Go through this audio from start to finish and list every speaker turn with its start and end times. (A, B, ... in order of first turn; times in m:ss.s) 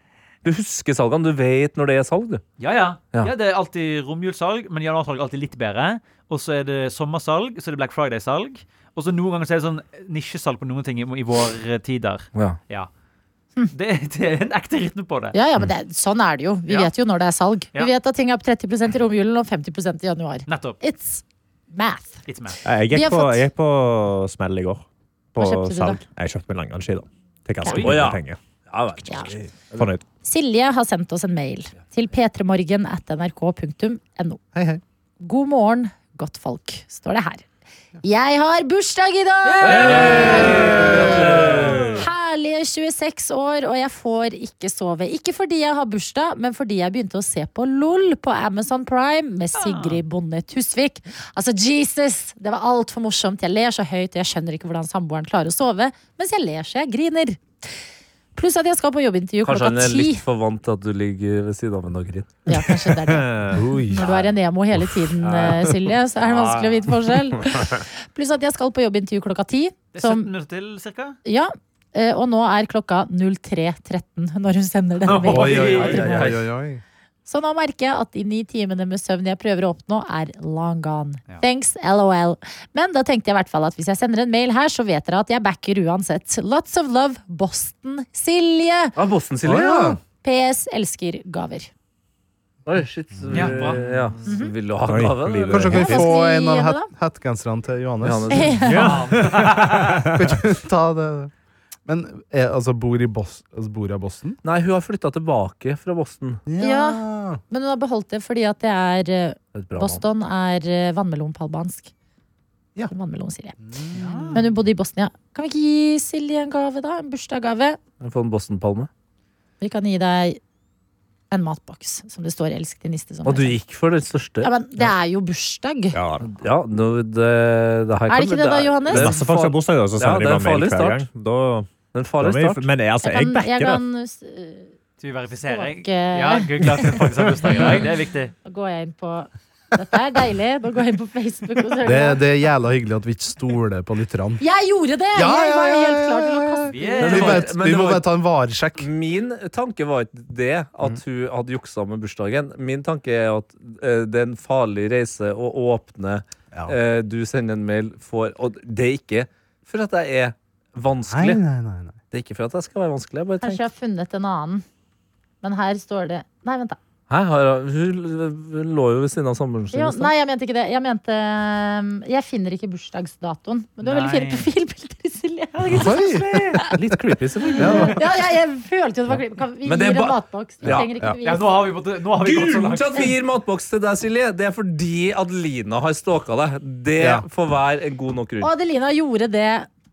0:00.4-0:02.4 A
0:02.6-0:12.9 B
0:13.7-0:15.4 B
0:15.3-0:22.2 C
0:20.5-0:20.8 B
0:22.3-0:22.6 B
0:22.6-0:28.4 D
0:22.9-0:23.5 C
0:25.4-0:26.0 C
0:27.8-0:29.9 A
0:29.0-0:30.0 D
0:29.1-0:29.3 C
0:30.2-0:34.4 C
0:34.5-0:34.8 E
0:35.2-0:37.4 C
0:38.0-0:41.3 C
0:39.6-0:41.9 A
0:39.7-0:40.4 B
0:40.8-0:41.7 E
0:41.8-0:57.8 C
0:49.5-0:50.0 B
0:58.4-1:00.2 C
0:59.4-1:02.4 A
1:02.5-1:03.3 C
1:02.5-1:03.7 D
1:03.5-1:04.0 E
1:03.9-1:10.3 C
1:05.2-1:07.0 A
1:09.9-1:11.2 B
1:11.2-1:16.2 C
1:15.0-1:16.3 B
1:15.3-1:16.8 E
1:15.4-1:16.4 A
1:17.3-1:29.0 C
1:29.0-1:30.0 A
1:29.4-1:30.0 E
1:30.2-1:31.7 C
1:32.7-1:35.8 A
1:33.3-1:33.8 B
1:34.3-1:34.5 C
1:34.9-1:36.1 D
1:35.5-1:38.7 E
1:35.7-1:36.9 C
1:38.0-1:38.6 A
1:38.3-1:39.0 C
1:38.6-1:40.4 D
1:38.8-1:39.7 B
1:39.2-1:41.3 E
1:41.9-1:44.4 E
1:44.4-1:46.4 A
1:46.5-1:47.4 E
1:46.6-1:51.9 C
1:49.6-1:50.0 A
1:52.9-1:53.6 C
1:53.6-1:54.4 E
1:54.0-1:54.4 B
1:54.3-1:57.8 C
1:58.0-1:58.9 A
1:59.6-2:00.4 C
2:01.3-2:03.6 C
2:03.2-2:04.5 A
2:04.4-2:06.0 C
2:05.9-2:06.3 D
2:06.2-2:11.0 A
2:08.1-2:09.1 C
2:08.9-2:13.8 D
2:11.9-2:12.7 A
2:13.0-2:14.7 C
2:15.0-2:18.3 B
2:15.5-2:17.9 C
2:18.4-2:22.2 C
2:21.8-2:24.4 E
2:24.4-2:27.2 C
2:25.1-2:28.9 E
2:26.7-2:27.5 B
2:27.0-2:28.0 A
2:28.8-2:41.4 A
2:41.1-2:42.0 E
2:42.1-2:43.6 A
2:43.4-2:44.6 C
2:45.4-2:46.8 C
2:47.1-2:50.1 A
2:49.7-2:56.8 C
2:53.8-2:54.5 B
2:55.7-2:56.6 E
2:56.0-2:58.0 A
2:57.6-3:01.7 C
2:57.6-2:58.0 E
2:57.6-2:57.9 B
2:59.6-3:00.8 A
3:00.7-3:01.2 E
3:01.2-3:03.1 B
3:02.2-3:08.5 A
3:07.0-3:07.3 E
3:08.4-3:09.7 C